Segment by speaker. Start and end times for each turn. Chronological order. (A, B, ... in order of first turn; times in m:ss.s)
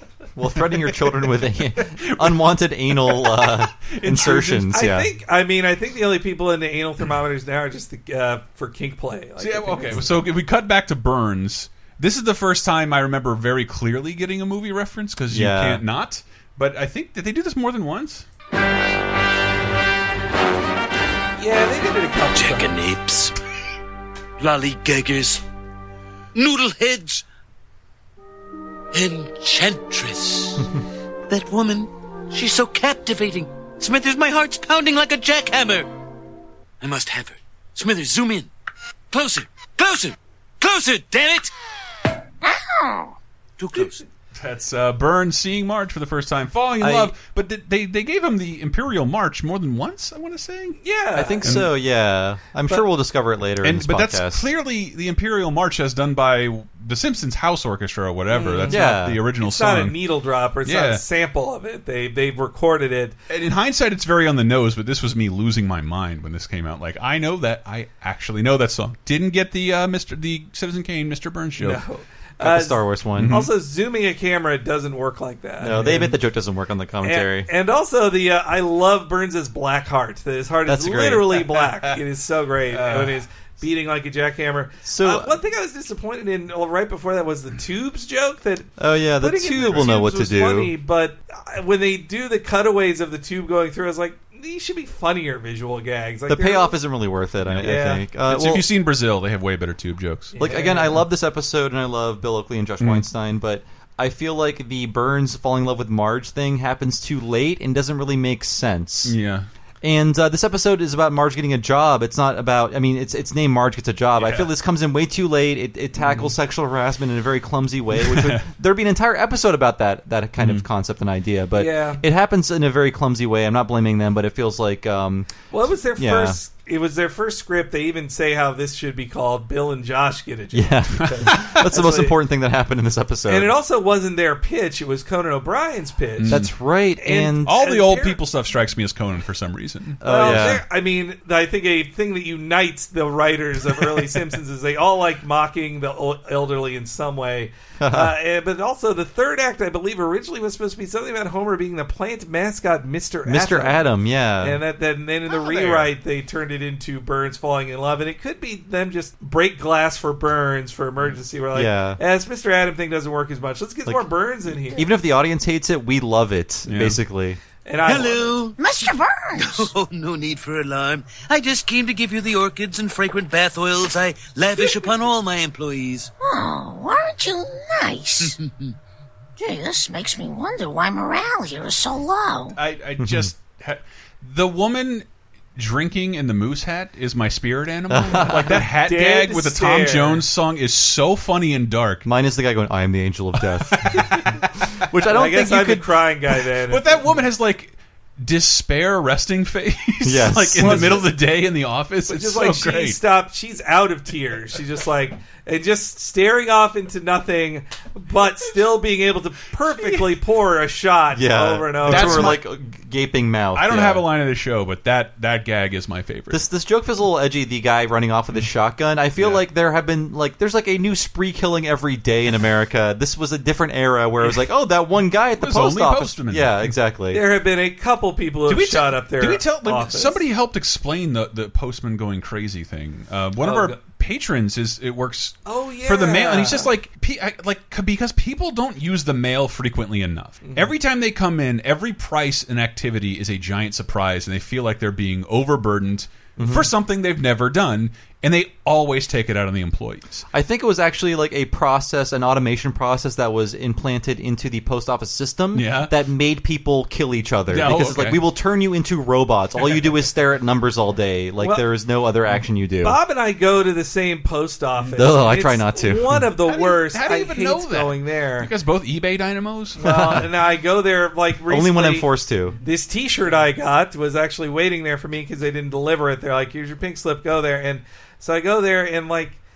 0:00.4-0:05.1 A
0:02.0-0:02.4 B
0:03.0-0:04.7 B
0:04.1-0:10.1 C
0:09.4-0:18.2 B
0:15.3-0:15.8 A
0:21.4-0:22.8 C
0:22.3-0:23.4 D
0:24.4-0:25.4 D
0:26.3-0:27.2 D
0:28.9-0:30.7 D
0:31.3-0:35.9 D
0:36.8-0:38.5 D
0:39.1-0:41.5 D
0:42.4-0:43.1 E
0:43.6-0:44.0 D
0:44.3-0:50.8 B
0:46.8-0:47.1 A
0:50.8-0:51.7 C
0:51.1-0:54.4 A
0:51.4-0:51.7 B
0:53.6-1:00.0 B
0:58.3-0:58.8 C
0:58.7-0:59.2 A
0:59.4-1:03.2 C
1:00.6-1:01.0 B
1:03.3-1:11.8 B
1:11.6-1:16.2 C
1:12.4-1:13.4 A
1:13.2-1:13.5 B
1:15.6-1:17.5 A
1:17.0-1:36.7 C
1:20.6-1:21.4 A
1:21.5-1:22.0 B
1:22.7-1:23.2 B
1:24.8-1:25.4 A
1:28.8-1:30.7 A
1:29.6-1:29.8 B
1:36.3-1:38.7 A
1:37.6-1:38.0 C
1:38.2-1:40.4 B
1:40.4-1:41.0 C
1:40.4-1:49.1 A
1:42.8-1:43.0 B
1:49.0-1:49.4 B
1:49.8-2:05.3 A
1:54.2-1:54.5 B
1:58.0-1:58.4 B
2:00.4-2:00.6 B
2:01.6-2:02.0 C
2:05.5-2:12.1 C
2:06.0-2:06.4 A
2:10.5-2:13.5 A
2:11.0-2:11.5 B
2:13.3-2:16.5 C
2:16.2-2:16.5 B
2:16.3-2:17.5 A
2:17.0-2:18.2 C
2:17.4-2:20.4 B
2:20.0-2:20.6 A
2:20.0-2:33.8 C
2:27.8-2:28.1 A
2:33.2-2:34.6 A
2:34.4-2:44.9 C
2:35.3-2:35.9 B
2:41.5-2:42.0 A
2:44.7-2:47.4 A
2:46.7-2:47.0 B
2:47.6-2:48.4 C
2:47.8-2:48.6 D
2:48.6-2:49.7 E
2:49.4-2:56.1 D
2:56.2-2:58.4 E
2:58.2-2:58.7 D
2:59.4-3:02.6 E
3:02.5-3:12.0 B
3:03.0-3:03.3 A
3:07.9-3:08.6 A
3:08.5-3:10.2 C
3:12.0-3:15.9 A
3:13.7-3:14.2 B
3:15.0-3:17.1 C
3:16.7-3:23.0 B
3:20.0-3:21.1 A
3:20.6-3:21.2 C
3:22.1-3:32.4 C
3:31.1-3:34.0 A
3:31.8-3:32.4 B
3:33.5-3:36.4 B
3:36.3-3:47.2 A
3:39.2-3:39.4 B
3:45.4-3:46.7 B
3:47.1-3:50.2 C
3:48.5-4:10.2 B
3:53.4-3:53.8 C
3:55.4-3:56.7 C
4:00.4-4:00.7 C
4:06.4-4:06.7 A
4:10.3-4:23.0 A
4:15.5-4:15.9 B
4:17.5-4:18.2 B
4:21.4-4:21.6 C
4:22.8-4:28.5 C
4:24.9-4:26.2 A
4:26.4-4:30.2 B
4:29.8-4:32.1 C
4:29.8-4:30.3 A
4:31.5-4:32.6 A
4:32.6-4:39.4 C